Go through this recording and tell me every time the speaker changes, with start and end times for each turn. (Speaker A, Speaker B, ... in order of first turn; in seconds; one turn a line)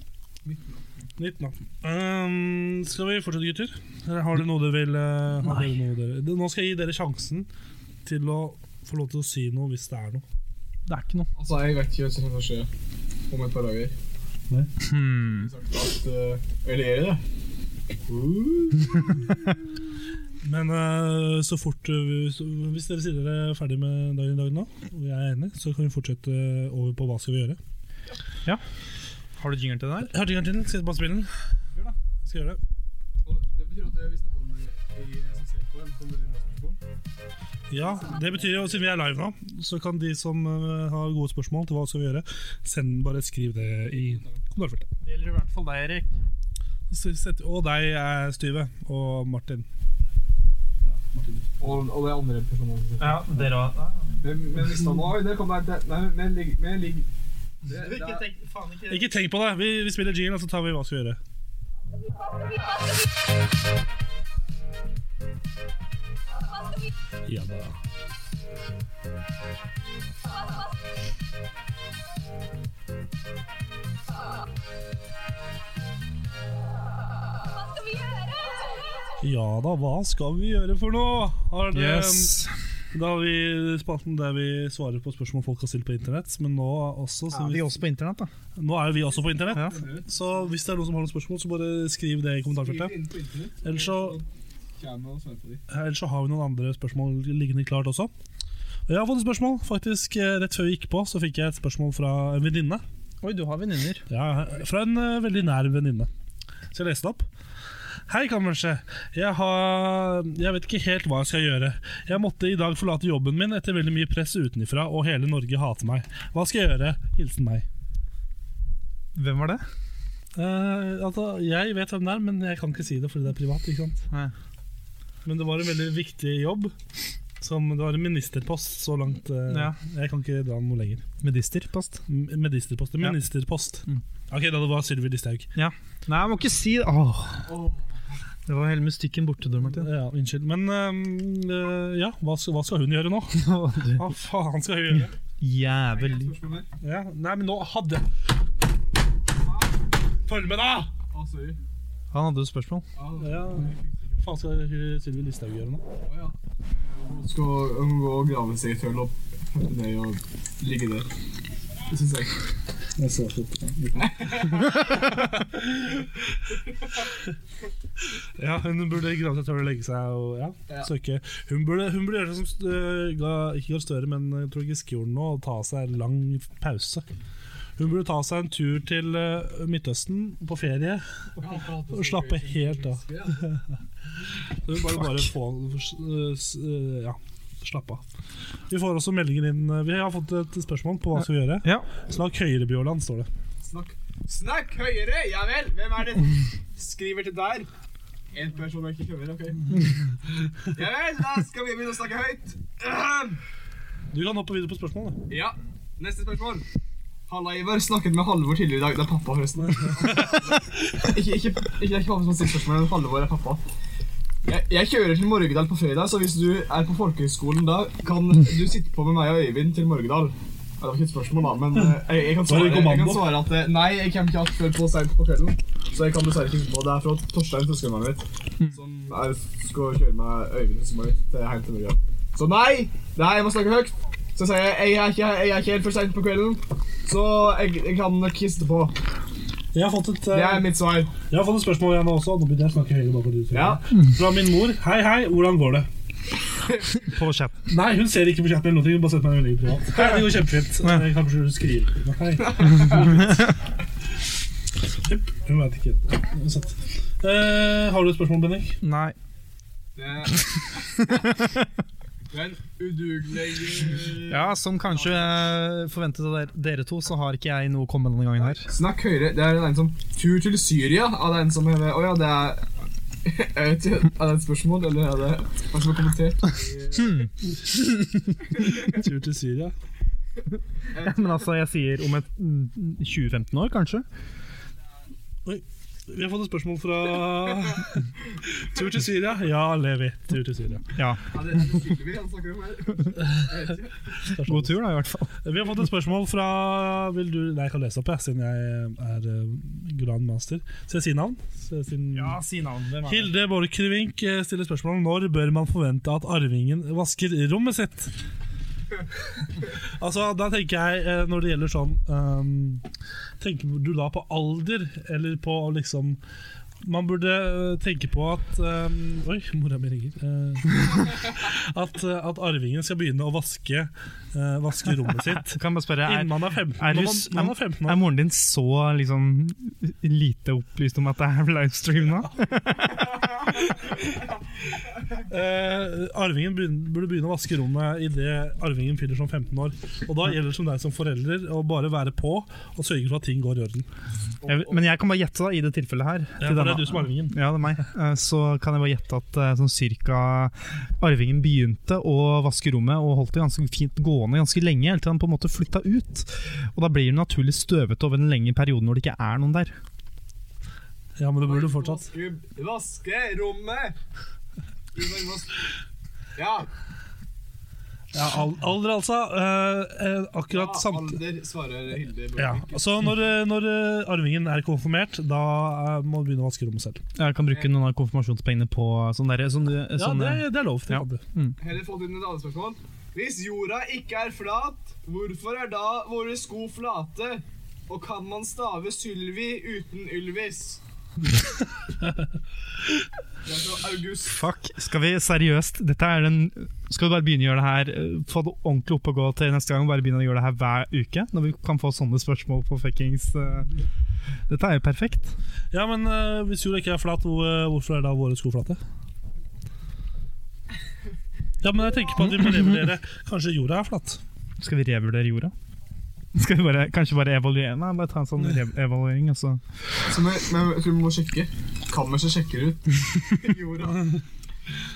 Speaker A: 0.4-1.1
Speaker B: 1.2-7.5
Speaker B: 8.1-10.2
Speaker C: 10.9-11.3
Speaker A: 11.4-12.7
Speaker A: 13.3-13.9
Speaker C: 14.8-15.5
Speaker A: 15.3-17.2
Speaker A: 18.1-19.4
Speaker B: 20.4-27.6
Speaker C: 29.4-30.1
Speaker B: 30.0-31.4
Speaker B: 32.2-32.6
Speaker A: 33.2-36.8
Speaker B: 37.7-44.9
Speaker A: 37.8-38.9
Speaker A: 44.0-44.4
Speaker C: 45.0-46.1
Speaker B: 46.9-49.7
Speaker B: 50.8-51.8
Speaker A: 51.6-53.5
Speaker C: 53.0-54.2
Speaker A: 54.2-57.1
Speaker A: 57.6-58.2
Speaker C: 57.7-59.1
Speaker B: 58.9-61.2
Speaker B: 67.3-67.8
Speaker B: 79.2-82.4
Speaker C: 81.7-82.5
Speaker B: 82.9-87.8
Speaker C: 87.3-88.3
Speaker B: 88.6-93.0
Speaker A: 89.2-90.1
Speaker C: 89.5-89.8
Speaker A: 92.5-95.6
Speaker B: 93.6-94.2
Speaker B: 95.7-98.1
Speaker B: 98.9-102.8
Speaker C: 103.2-104.0
Speaker B: 104.1-106.1
Speaker B: 106.7-107.3
Speaker B: 108.1-117.7
Speaker C: 119.2-119.6
Speaker B: 120.3-124.1
Speaker B: 125.2-126.7
Speaker B: 127.4-131.1
Speaker C: 129.5-129.8
Speaker C: 131.2-132.0
Speaker B: 132.1-135.5
Speaker C: 135.6-137.6
Speaker A: 137.4-138.0
Speaker C: 138.5-139.9
Speaker B: 139.7-145.1
Speaker C: 143.4-144.1
Speaker C: 145.4-146.3
Speaker A: 145.9-146.7
Speaker B: 146.8-148.1
Speaker A: 149.4-149.7
Speaker B: 150.3-150.9
Speaker A: 151.1-151.6
Speaker C: 152.1-152.9
Speaker A: 153.0-154.3
Speaker B: 153.2-155.8
Speaker A: 156.1-161.1
Speaker A: 161.9-162.4
Speaker B: 163.0-164.6
Speaker A: 164.0-164.9
Speaker B: 168.4-177.1
Speaker B: 177.8-181.1
Speaker A: 181.4-183.4
Speaker B: 181.9-183.6
Speaker B: 184.5-188.0
Speaker B: 188.7-193.3
Speaker A: 193.6-197.7
Speaker A: 198.3-199.8
Speaker A: 200.7-203.4
Speaker B: 204.1-205.3
Speaker A: 205.3-206.7
Speaker A: 207.3-213.7
Speaker B: 209.8-210.3
Speaker A: 214.5-239.0
Speaker B: 222.4-223.4
Speaker B: 239.7-245.9
Speaker A: 240.3-241.1
Speaker A: 243.5-243.8
Speaker C: 247.0-247.6
Speaker B: 247.7-253.3
Speaker B: 255.0-258.8
Speaker C: 258.8-259.1
Speaker A: 260.0-261.3
Speaker A: 262.3-265.3
Speaker C: 264.3-268.7
Speaker A: 268.4-272.7
Speaker A: 273.2-277.3
Speaker C: 276.9-277.3
Speaker B: 278.7-279.8
Speaker A: 280.9-281.5
Speaker C: 281.0-284.1
Speaker B: 285.4-290.9
Speaker C: 290.9-291.2
Speaker A: 291.3-294.1
Speaker B: 294.3-294.8
Speaker C: 294.4-295.3
Speaker B: 295.4-302.4
Speaker C: 302.1-303.3
Speaker B: 303.1-308.1
Speaker B: 309.7-312.8
Speaker B: 313.4-316.2
Speaker B: 316.8-328.0
Speaker C: 325.5-333.5
Speaker B: 335.2-343.9
Speaker A: 344.4-344.8
Speaker C: 344.4-359.8
Speaker B: 346.4-347.4
Speaker B: 361.2-362.1
Speaker A: 361.4-364.0
Speaker A: 364.9-365.7
Speaker A: 366.4-366.7
Speaker B: 368.1-371.2
Speaker A: 370.5-372.9
Speaker B: 372.4-377.0
Speaker C: 377.2-381.6
Speaker A: 377.5-377.7
Speaker B: 380.0-381.2
Speaker A: 381.6-390.8
Speaker A: 393.4-394.4
Speaker C: 394.3-403.8
Speaker C: 404.5-405.4
Speaker B: 405.7-408.8
Speaker B: 411.6-414.2
Speaker C: 414.6-415.5
Speaker C: 416.3-419.6
Speaker A: 420.1-424.2